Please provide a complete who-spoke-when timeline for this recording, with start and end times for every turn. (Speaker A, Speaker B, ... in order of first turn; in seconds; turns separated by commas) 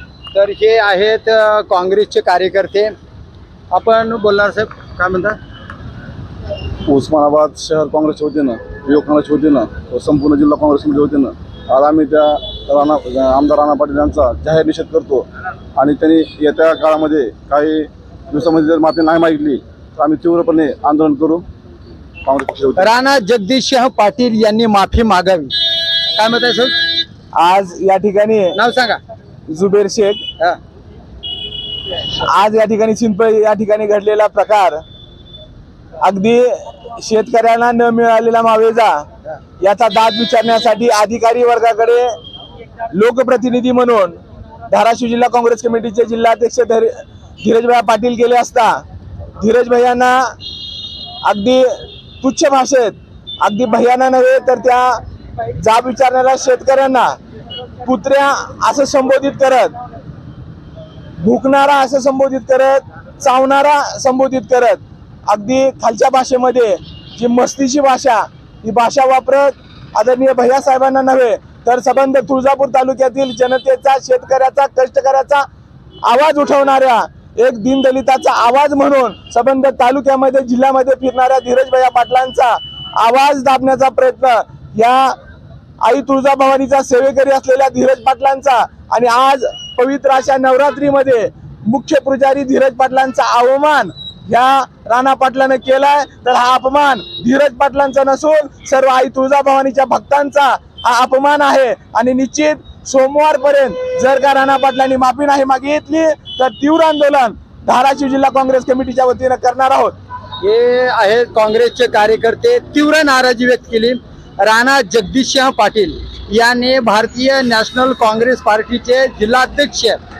Speaker A: 0.3-2.9, Speaker A: 3.7-5.4, Speaker B: 6.9-15.2, Speaker B: 15.8-21.4, Speaker B: 22.2-22.9, Speaker A: 22.8-25.5, Speaker A: 26.1-26.8, Speaker C: 27.4-28.6, Speaker A: 28.5-29.0, Speaker C: 29.5-30.2, Speaker C: 32.2-34.8, Speaker C: 36.0-39.1, Speaker C: 39.6-42.2, Speaker C: 42.9-48.8, Speaker C: 49.4-50.3, Speaker C: 51.2-55.0, Speaker C: 55.6-57.2, Speaker C: 57.8-59.8, Speaker C: 61.2-75.5, Speaker C: 76.0-85.2, Speaker C: 85.8-110.0, Speaker A: 110.4-120.0